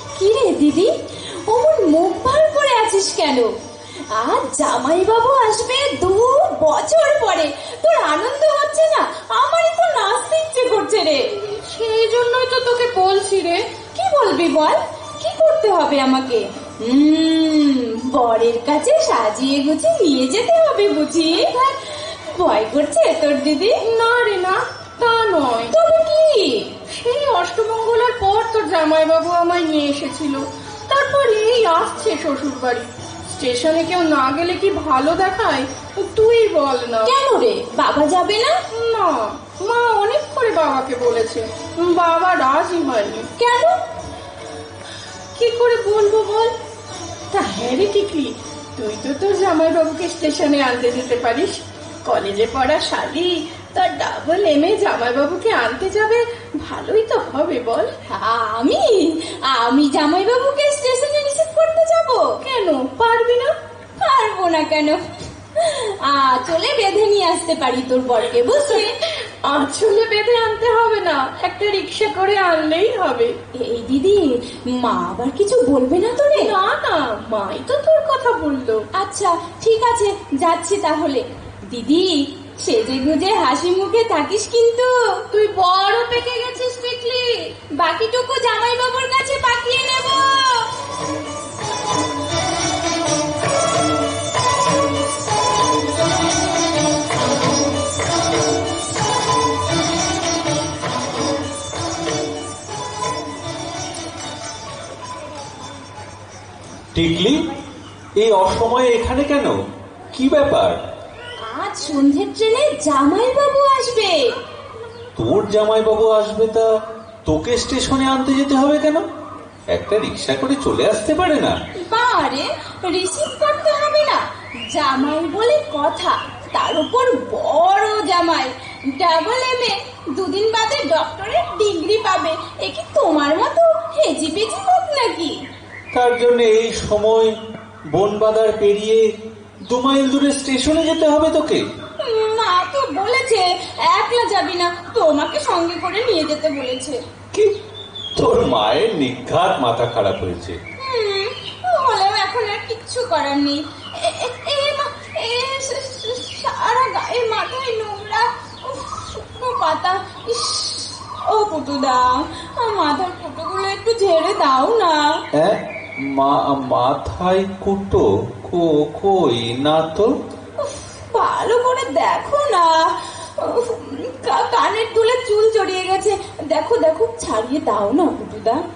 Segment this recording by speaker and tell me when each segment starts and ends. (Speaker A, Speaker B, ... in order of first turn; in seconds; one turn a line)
Speaker A: 0.2-0.9
Speaker A: 1.5-3.5
Speaker A: 4.1-11.2
Speaker B: 11.3-13.6
Speaker A: 13.9-23.7
Speaker B: 21.3-21.6
Speaker B: 23.8-25.7
Speaker A: 25.7-26.7
Speaker B: 26.9-37.1
Speaker A: 37.0-38.5
Speaker B: 38.7-43.3
Speaker A: 43.4-43.8
Speaker B: 45.3-46.5
Speaker B: 47.3-57.9
Speaker A: 58.1-62.2
Speaker B: 62.4-63.5
Speaker A: 64.0-65.0
Speaker A: 65.5-68.9
Speaker B: 68.7-73.3
Speaker A: 73.6-76.5
Speaker B: 76.3-78.8
Speaker A: 79.0-84.9
Speaker B: 85.3-87.4
Speaker A: 87.8-90.6
Speaker C: 106.9-107.5
Speaker C: 108.2-109.5
Speaker C: 110.1-110.8
Speaker A: 111.4-114.3
Speaker C: 115.2-116.7
Speaker C: 117.2-119.0
Speaker C: 119.7-121.5
Speaker A: 121.8-135.4
Speaker C: 135.9-137.3
Speaker C: 137.9-139.0
Speaker C: 139.7-141.6
Speaker A: 142.0-147.0
Speaker C: 148.2-150.6
Speaker A: 150.8-165.1
Speaker C: 165.3-170.1
Speaker A: 170.6-178.6